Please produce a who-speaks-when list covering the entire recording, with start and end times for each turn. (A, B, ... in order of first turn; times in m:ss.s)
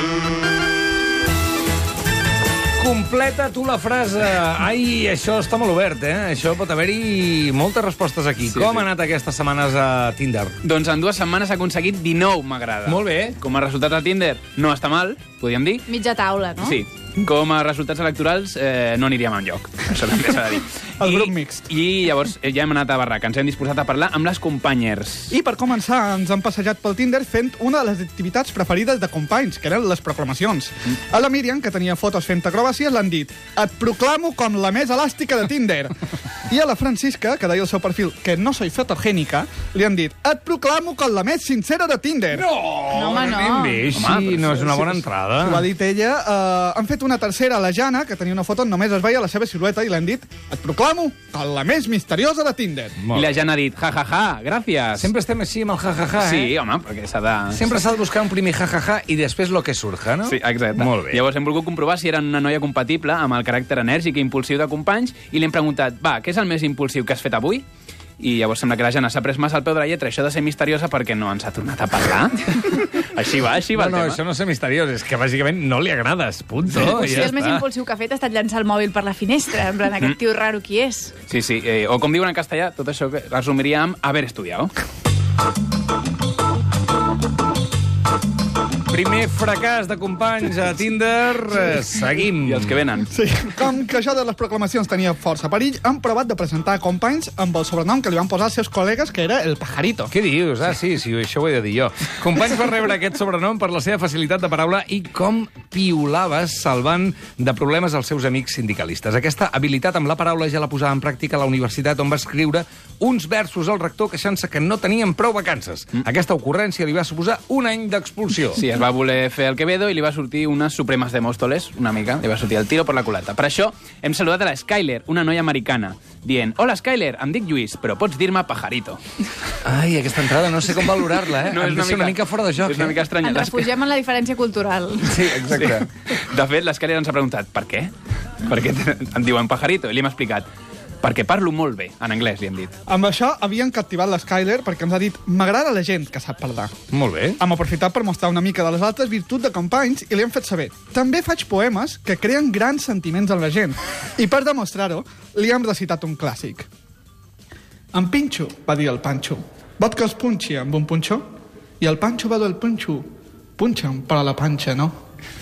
0:02.8-0:10.6 A
0:08.4-0:08.9 B
0:10.6-0:15.9 B
0:12.9-0:13.4 A
0:15.9-0:16.8 C
0:16.6-0:25.3 B
0:21.0-0:21.7 D
0:25.3-0:35.9 D
0:36.5-0:42.5 D
0:42.3-0:45.7 A
0:42.9-0:43.9 C
0:43.9-0:44.7 B
0:44.9-0:53.0 D
0:53.0-0:53.3 A
0:53.1-0:55.1 B
0:55.0-0:56.5 A
0:56.2-0:57.6 B
0:57.5-1:01.2 A
1:00.2-1:07.6 B
1:08.2-1:14.2 B
1:13.7-1:17.7 A
1:16.8-1:21.2 C
1:17.0-1:17.3 B
1:21.3-1:24.7 B
1:28.9-1:32.8 A
1:32.4-1:33.1 B
1:33.1-1:40.1 D
1:40.1-1:58.6 A
1:58.6-2:09.0 B
2:09.6-2:13.0 A
2:11.4-2:13.7 B
2:13.2-2:15.5 C
2:15.0-2:15.9 A
2:15.5-2:20.5 B
2:21.0-2:22.7 B
2:22.9-2:26.7 D
2:26.9-2:27.4 A
2:27.4-2:36.7 D
2:37.9-2:41.3 D
2:41.8-2:43.1 D
2:43.6-2:45.0 D